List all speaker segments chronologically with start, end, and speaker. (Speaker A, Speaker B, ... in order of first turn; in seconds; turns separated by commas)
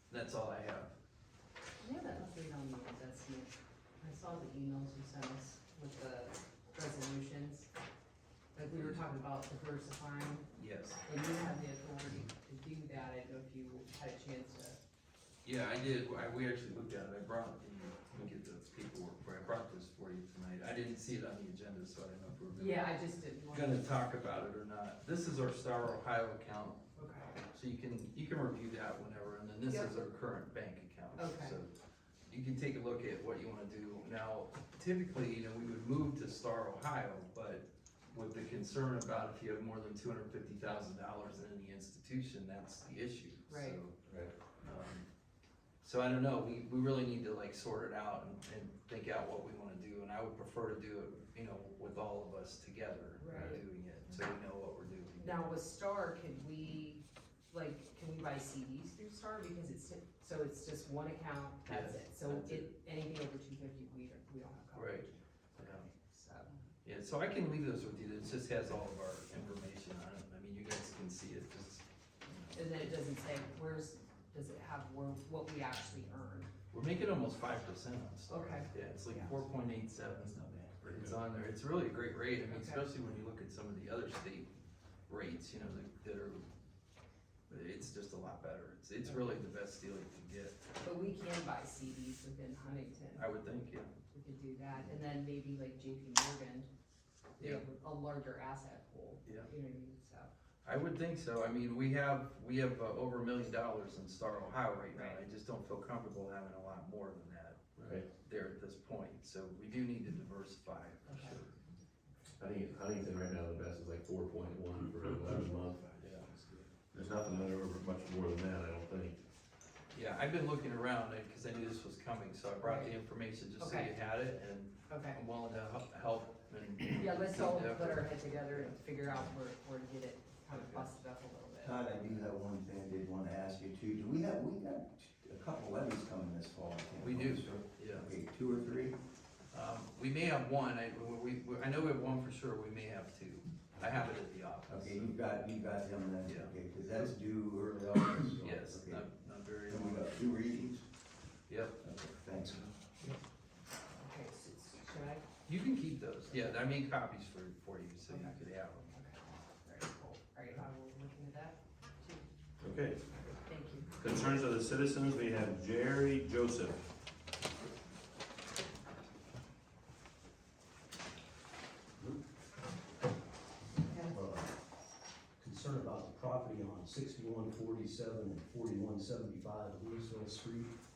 Speaker A: 0.1-0.9, Speaker B: 1.8-7.7, Speaker B: 8.6-10.5, Speaker A: 10.6-11.0, Speaker B: 11.0-14.8, Speaker A: 15.4-22.8, Speaker B: 22.5-23.9, Speaker A: 23.5-26.9, Speaker B: 26.9-27.4, Speaker A: 27.5-31.7, Speaker B: 29.7-29.9, Speaker B: 31.2-31.6, Speaker A: 32.3-44.0, Speaker B: 43.5-43.8, Speaker A: 44.6-45.0, Speaker A: 45.8-55.3, Speaker B: 53.2-53.6, Speaker C: 53.3-53.6, Speaker B: 55.2-66.5, Speaker A: 61.7-62.7, Speaker A: 64.8-65.1, Speaker A: 65.6-65.8, Speaker A: 66.8-72.6, Speaker B: 72.5-76.5, Speaker A: 76.7-84.5, Speaker B: 78.3-79.4, Speaker D: 80.7-81.2, Speaker B: 82.5-82.8, Speaker A: 85.1-86.5, Speaker A: 87.5-90.7, Speaker B: 89.0-89.4, Speaker B: 90.8-93.3, Speaker A: 93.2-94.0, Speaker B: 94.0-96.7, Speaker B: 97.4-100.3, Speaker A: 100.7-111.5, Speaker B: 104.9-105.2, Speaker D: 107.8-108.1, Speaker B: 111.0-111.4, Speaker C: 112.4-119.2, Speaker A: 119.9-127.9, Speaker B: 122.6-122.9, Speaker B: 123.6-123.9, Speaker B: 124.9-125.2, Speaker D: 126.9-128.1, Speaker B: 126.9-131.8, Speaker A: 130.5-130.9, Speaker E: 131.6-139.0, Speaker A: 137.0-138.1, Speaker A: 139.5-145.2, Speaker E: 144.7-149.1, Speaker A: 146.3-146.5, Speaker A: 148.4-150.1, Speaker E: 149.7-150.8, Speaker A: 151.5-151.8, Speaker E: 151.8-152.7, Speaker B: 153.9-155.4, Speaker A: 155.5-158.8, Speaker B: 156.3-156.6, Speaker B: 158.1-162.2, Speaker D: 162.6-163.0, Speaker B: 163.2-164.2, Speaker D: 164.0-166.8, Speaker C: 164.1-164.4, Speaker F: 174.1-174.5, Speaker F: 175.4-180.7